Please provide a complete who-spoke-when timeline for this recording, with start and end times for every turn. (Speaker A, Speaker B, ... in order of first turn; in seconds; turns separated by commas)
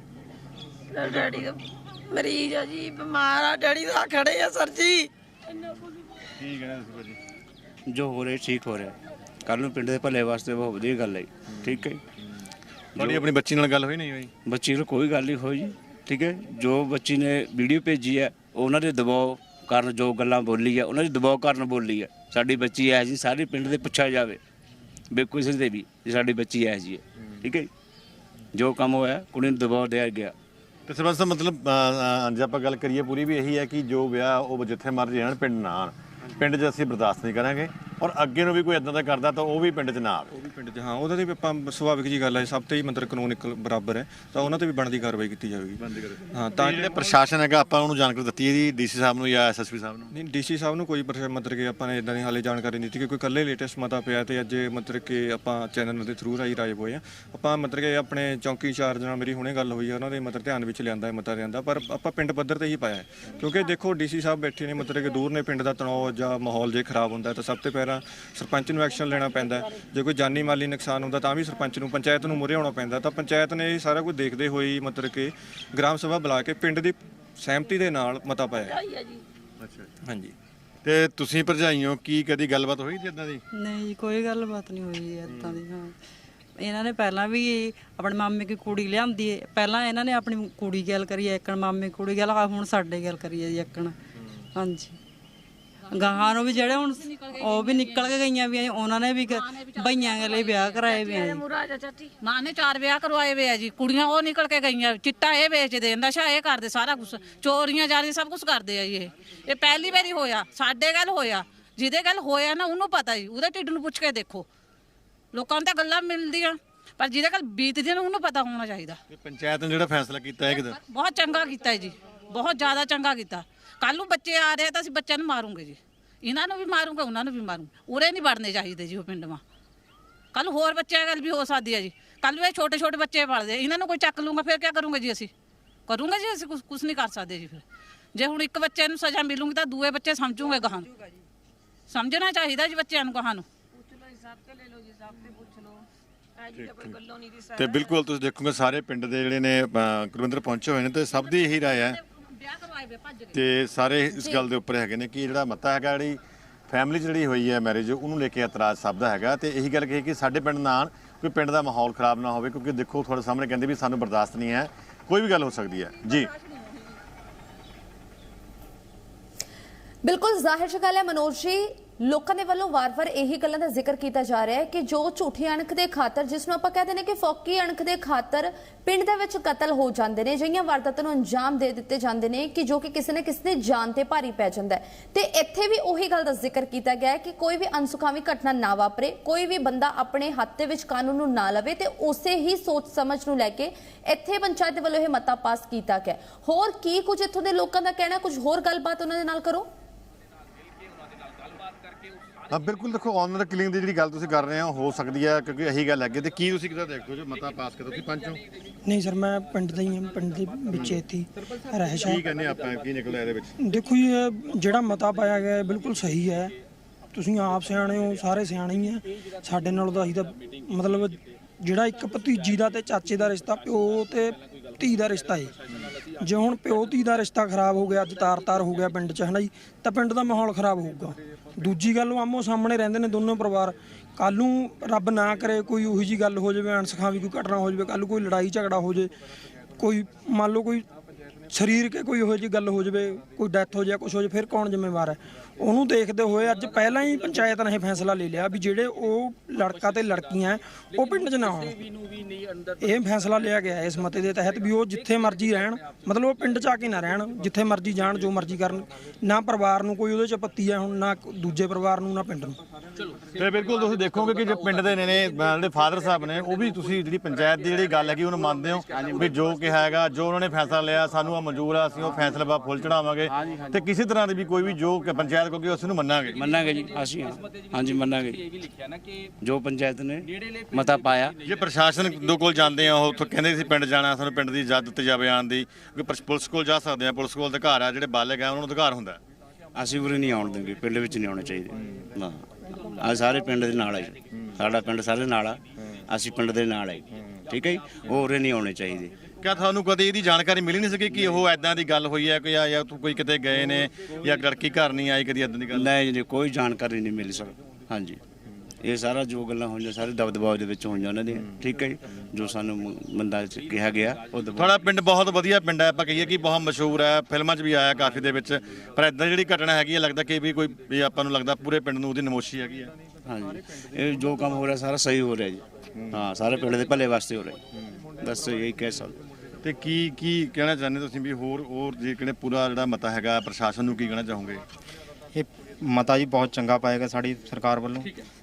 Speaker A: 0.9-5.1, Speaker B: 6.4-7.2, Speaker C: 7.9-12.0, Speaker B: 11.5-12.4, Speaker B: 12.9-14.3, Speaker C: 13.0-13.3, Speaker C: 14.4-24.4, Speaker C: 25.1-27.7, Speaker C: 28.5-30.4, Speaker B: 30.9-40.4, Speaker D: 40.3-45.8, Speaker B: 45.8-50.1, Speaker D: 46.3-47.1, Speaker D: 50.1-78.8, Speaker A: 78.6-79.2, Speaker B: 79.6-79.9, Speaker D: 80.0-80.3, Speaker B: 80.8-83.4, Speaker E: 83.5-86.0, Speaker B: 85.3-85.6, Speaker E: 86.6-94.0, Speaker E: 94.5-95.0, Speaker E: 95.9-101.4, Speaker F: 95.9-98.2, Speaker F: 99.3-101.1, Speaker A: 101.0-102.1, Speaker F: 102.2-114.5, Speaker F: 115.3-119.0, Speaker B: 119.1-120.8, Speaker F: 120.7-129.4, Speaker F: 130.3-135.3, Speaker F: 135.9-137.6, Speaker F: 138.1-140.9, Speaker F: 141.9-143.5, Speaker A: 146.4-147.8, Speaker B: 146.6-146.9, Speaker B: 147.5-152.0, Speaker F: 152.0-153.3, Speaker B: 153.3-166.3, Speaker G: 154.1-154.5, Speaker G: 170.0-199.7, Speaker B: 202.5-208.4, Speaker H: 208.8-212.2, Speaker B: 210.7-211.0, Speaker B: 212.0-213.5, Speaker H: 213.6-216.5, Speaker H: 217.1-225.5, Speaker H: 226.2-239.1, Speaker H: 239.8-240.8, Speaker H: 241.5-251.8, Speaker H: 252.8-262.6, Speaker B: 263.4-276.5, Speaker C: 276.4-278.5, Speaker C: 279.4-281.4, Speaker B: 281.4-289.2, Speaker C: 289.8-299.1, Speaker B: 299.4-305.9, Speaker C: 305.7-308.2, Speaker C: 308.8-314.7, Speaker B: 314.6-322.9, Speaker C: 323.2-327.6, Speaker B: 325.9-326.2, Speaker C: 328.2-329.2, Speaker B: 329.6-334.6, Speaker I: 335.3-338.1